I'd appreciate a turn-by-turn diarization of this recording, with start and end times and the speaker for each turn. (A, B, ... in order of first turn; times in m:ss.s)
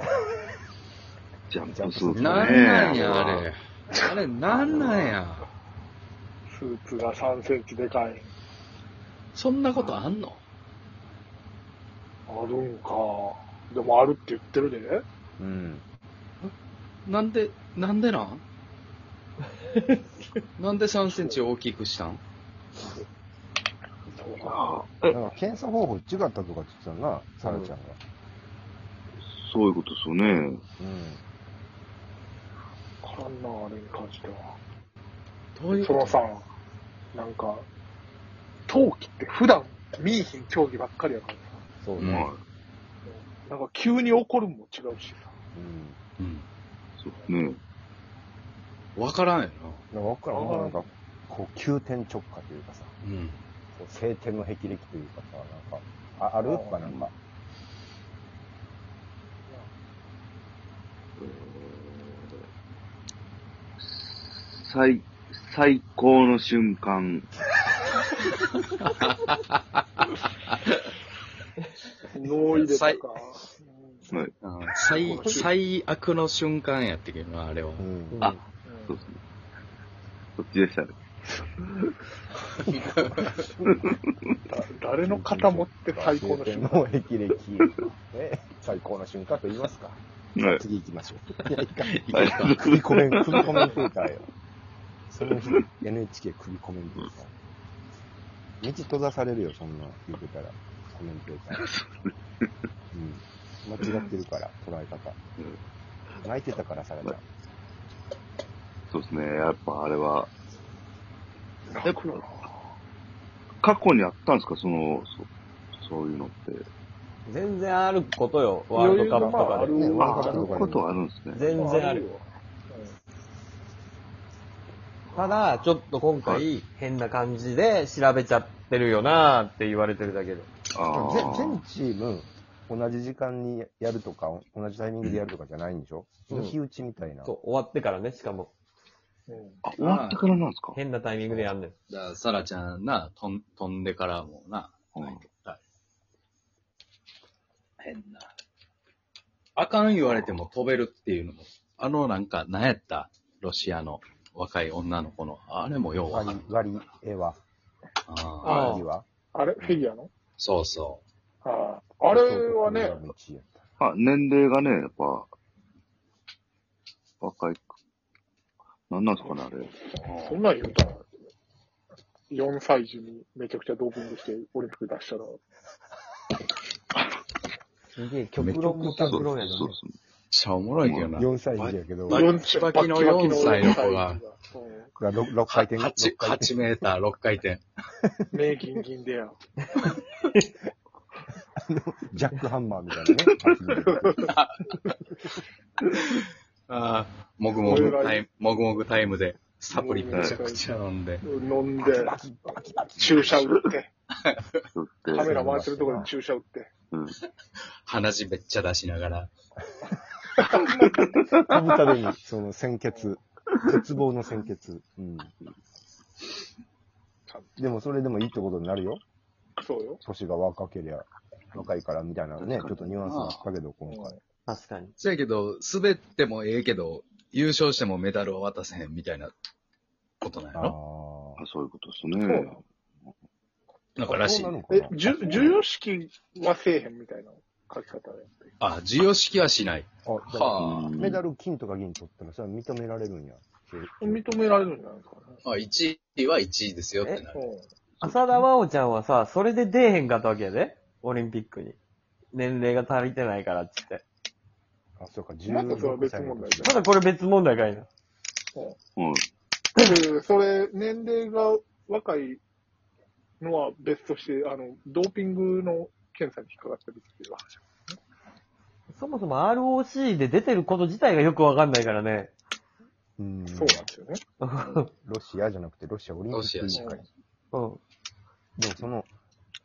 0:01.5-0:03.5 A
0:01.7-0:03.2 B
0:02.1-0:05.5 C
0:04.5-0:05.2 A
0:06.5-0:08.3 D
0:09.3-0:10.4 C
0:12.3-0:15.0 D
0:15.4-0:15.8 B
0:17.0-0:18.4 C
0:19.8-0:20.0 E
0:20.6-0:22.2 C
0:21.0-0:21.4 D
0:24.1-0:24.8 D
0:24.4-0:25.2 A
0:25.1-0:28.0 B
0:27.4-0:27.7 E
0:29.2-0:30.6 A
0:30.8-0:31.2 B
0:33.0-0:34.6 D
0:35.6-0:36.2 C
0:35.7-0:36.5 D
0:37.1-0:37.7 D
0:38.7-0:41.6 D
0:42.0-0:42.3 C
0:42.0-0:42.4 A
0:43.1-0:45.4 D
0:45.5-0:46.0 B
0:46.2-0:46.5 C
0:47.0-0:47.6 A
0:49.0-0:49.8 C
0:49.9-0:53.0 B
0:50.3-0:50.9 D
0:53.0-0:53.4 C
0:53.8-0:57.1 B
0:56.5-0:56.8 D
0:56.8-0:57.1 A
1:01.2-1:02.4 A
1:03.8-1:07.3 A
1:08.8-1:10.0 C
1:12.1-1:14.1 D
1:12.5-1:13.1 C
1:14.1-1:14.4 A
1:14.4-1:17.9 C
1:14.9-1:15.5 D
1:17.8-1:18.4 B
1:18.1-1:18.4 E
1:18.6-1:19.1 D
1:18.9-1:19.2 A
1:20.4-1:21.9 A
1:22.6-1:24.0 B
1:22.6-1:23.5 C
1:23.6-1:24.4 A
1:24.5-1:26.9 D
1:25.0-1:34.3 B
1:30.4-1:30.6 A
1:31.9-1:32.7 C
1:32.2-1:33.7 A
1:35.1-1:37.3 B
1:38.6-1:41.7 B
1:41.5-1:42.5 A
1:42.9-1:45.2 B
1:46.2-1:47.2 B
1:48.9-1:50.3 A
1:51.7-1:52.5 D
1:51.8-1:52.2 A
1:53.6-1:56.7 A
1:57.2-2:00.5 E
1:58.7-2:00.5 D
1:59.2-2:00.8 B
2:00.0-2:01.6 A
2:01.3-2:02.1 E
2:01.6-2:03.0 D
2:05.1-2:06.5 A
2:05.1-2:10.5 E
2:10.7-2:11.6 A
2:10.9-2:17.3 B
2:16.3-2:16.6 E
2:17.2-2:18.5 E
2:19.3-2:19.6 D
2:19.6-2:20.8 A
2:19.8-2:20.2 C
2:20.7-2:21.8 E
2:21.9-2:25.6 C
2:25.0-2:25.2 A
2:27.8-2:28.3 C
2:29.6-2:36.4 C
2:36.1-2:37.4 B
2:38.1-2:38.8 C
2:38.4-2:38.9 E
2:38.4-2:39.1 B
2:39.3-2:40.1 D
2:40.4-2:41.0 C
2:41.4-2:43.0 D
2:42.1-2:43.6 B
2:43.8-2:45.3 A
2:47.2-2:47.8 A
2:48.9-2:50.4 A
2:49.9-2:51.1 D
2:52.3-2:55.4 D
2:58.0-2:59.8 E
2:58.4-2:59.3 C
2:58.9-3:00.0 A
3:00.3-3:04.2 C
3:00.8-3:01.2 A
3:01.1-3:02.3 B
3:02.1-3:04.9 D
3:05.0-3:06.7 B
3:05.5-3:07.6 C
3:08.3-3:09.4 D
3:11.6-3:14.3 B
3:13.9-3:14.3 D
3:14.2-3:14.6 C
3:15.9-3:21.2 C
3:17.6-3:18.2 D
3:19.7-3:20.7 D
3:20.1-3:20.4 A
3:21.2-3:22.2 D
3:21.8-3:23.4 B
3:23.0-3:23.9 D
3:24.2-3:24.6 C
3:24.8-3:25.4 A
3:25.1-3:26.7 D
3:25.2-3:26.1 B
3:26.9-3:27.2 A
3:27.8-3:29.3 C
3:30.4-3:30.9 D
3:30.6-3:31.6 A
3:31.3-3:35.3 B
3:33.5-3:33.8 A
3:37.6-3:39.0 B
3:39.6-3:40.0 D
3:40.0-3:44.2 B
3:42.4-3:43.0 A
3:43.0-3:43.4 C
3:43.9-3:44.2 D
3:44.5-3:45.0 E
3:45.0-3:49.3 C
3:50.2-3:50.8 C
3:50.6-3:51.4 B
3:51.4-3:53.1 A
3:52.2-3:52.6 D
3:54.0-3:54.5 C
3:54.0-3:55.6 B
3:54.7-3:58.5 D
3:55.1-3:55.6 C
3:58.6-4:01.0 C
4:00.0-4:04.7 B
4:00.6-4:01.2 A
4:04.0-4:05.4 D
4:05.4-4:07.4 C
4:07.3-4:07.7 D
4:08.0-4:11.8 E
4:12.3-4:14.0 E
4:15.0-4:16.9 B
4:15.5-4:16.9 D
4:16.6-4:17.9 E
4:19.0-4:19.3 A
4:19.8-4:22.4 D
4:23.4-4:28.0 D
4:28.9-4:32.3 E
4:33.2-4:33.9 B
4:33.5-4:34.2 D
4:34.4-4:34.9 E
4:35.0-4:37.0 B
4:36.3-4:37.0 C
4:36.8-4:37.0 D
4:37.5-4:37.8 E
4:38.6-4:39.1 B